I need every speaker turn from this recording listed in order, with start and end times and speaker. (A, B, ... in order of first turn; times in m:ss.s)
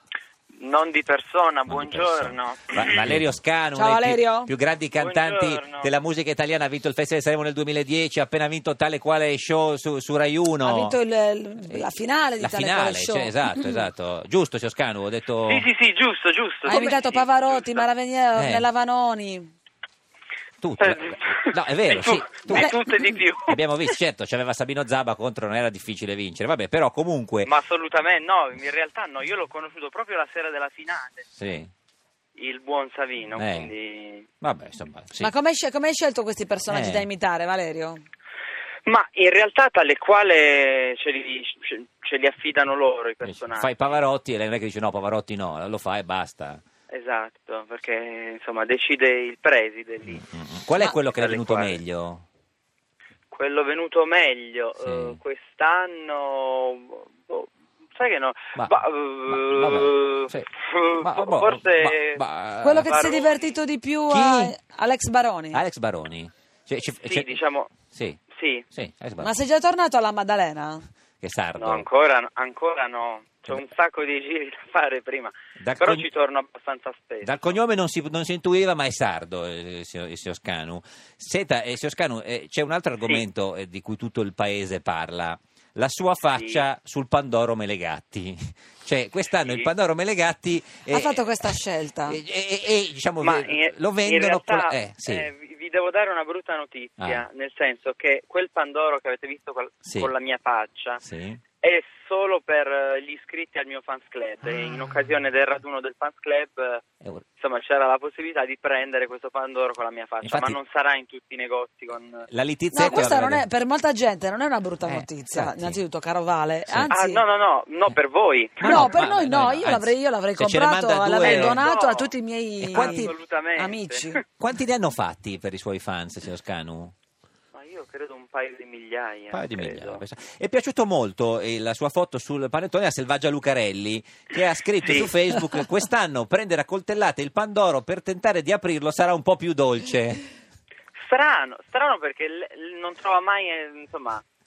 0:00.6-0:03.0 A
0:01.7-0:10.9 B
0:03.8-0:04.5 C
0:05.0-0:05.9 A
0:10.6-0:13.8 C
0:12.4-0:15.6 B
0:15.5-0:17.8 A
0:16.6-0:19.5 C
0:18.4-0:18.6 B
0:20.6-0:22.8 B
0:20.8-0:23.6 A
0:22.5-0:22.8 C
0:23.5-0:27.5 B
0:27.4-0:31.2 A
0:31.4-0:31.7 B
0:32.4-0:34.3 A
0:33.3-0:33.7 B
0:34.4-0:35.3 B
0:35.2-0:38.0 C
0:36.7-0:37.1 B
0:38.8-0:44.0 A
0:43.2-0:46.6 B
0:46.9-0:50.2 A
0:50.0-0:52.2 B
0:50.8-0:51.8 A
0:53.3-1:02.2 A
0:54.8-0:55.2 B
0:59.3-1:02.9 B
1:02.6-1:05.6 C
1:02.8-1:03.5 A
1:04.1-1:04.5 B
1:05.5-1:07.4 B
1:07.0-1:07.7 A
1:07.9-1:08.2 B
1:08.3-1:08.6 A
1:08.7-1:09.3 B
1:09.2-1:10.9 C
1:11.2-1:11.8 B
1:11.6-1:17.5 A
1:15.6-1:16.0 B
1:17.2-1:35.3 B
1:26.3-1:26.6 A
1:29.3-1:29.7 A
1:30.9-1:32.2 C
1:33.2-1:41.0 A
1:39.8-1:40.1 B
1:41.0-1:41.4 B
1:41.6-1:46.8 A
1:47.4-1:52.3 A
1:50.2-1:50.6 B
1:52.3-1:53.4 B
1:52.7-1:57.2 C
1:54.8-1:55.8 B
1:56.7-1:56.9 B
1:56.9-1:58.9 A
1:58.6-2:01.7 B
1:58.6-2:04.2 C
2:01.2-2:02.1 A
2:02.6-2:03.1 B
2:02.7-2:04.2 A
2:04.4-2:06.9 B
2:07.5-2:10.0 A
2:09.3-2:20.2 B
2:14.8-2:15.1 A
2:21.0-2:24.2 A